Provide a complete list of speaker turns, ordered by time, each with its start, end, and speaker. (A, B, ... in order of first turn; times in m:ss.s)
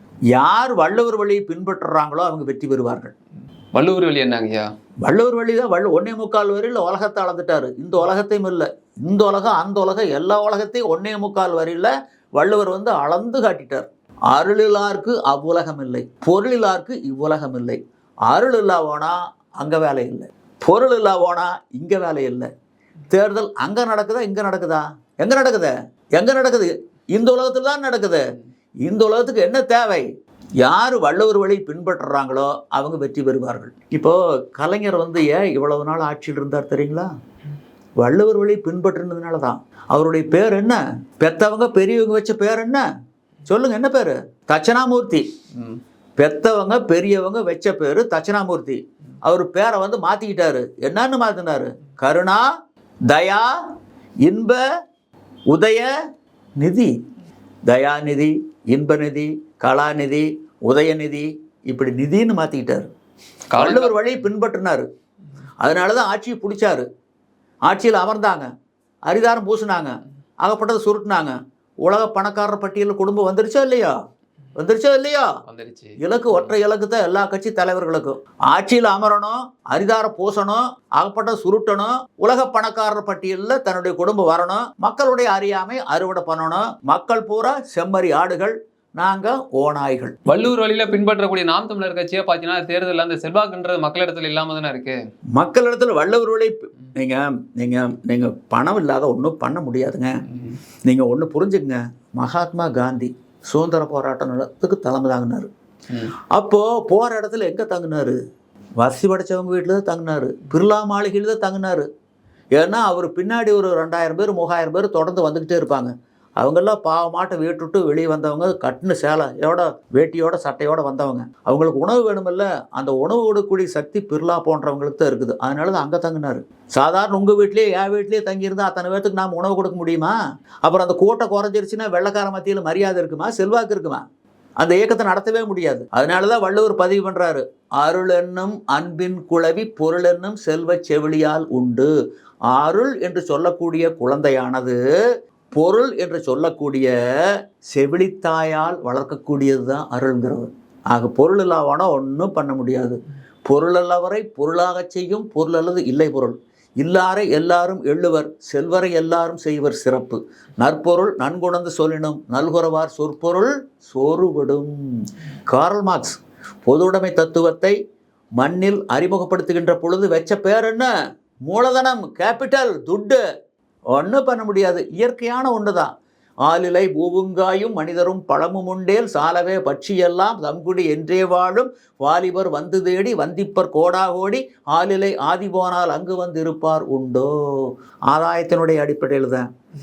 0:00.3-0:03.1 A
0:03.7-0:04.6 B
0:05.0-0:22.5 A
0:23.1-0:28.2 A
0:28.8-0:30.0 A
0:30.6-0:37.1 A
0:38.0-0:42.8 A
0:43.4-0:45.2 A
0:46.2-0:52.4 A
0:53.1-0:53.5 A
0:54.2-0:54.6 A
0:55.5-0:55.9 A
0:56.6-0:56.9 A
0:57.7-1:02.9 A
1:03.5-1:03.9 B
1:03.6-1:04.8 A
1:05.6-1:06.8 A
1:07.6-1:08.5 A
1:09.1-1:13.9 A
1:14.6-1:15.3 A
1:15.5-1:15.9 B
1:16.0-1:30.4 A
1:30.3-1:35.0 B
1:35.3-1:40.2 A
1:40.8-1:45.5 A
1:46.3-1:48.2 A
1:48.8-1:51.9 A
1:52.5-2:14.0 A
2:14.6-2:21.9 A
2:22.5-2:24.8 A
2:25.5-2:26.9 A
2:27.7-2:44.7 A
2:45.5-2:47.8 A
2:48.4-2:50.9 A
2:51.5-2:53.2 A
2:53.9-2:55.9 A
2:56.4-3:09.5 A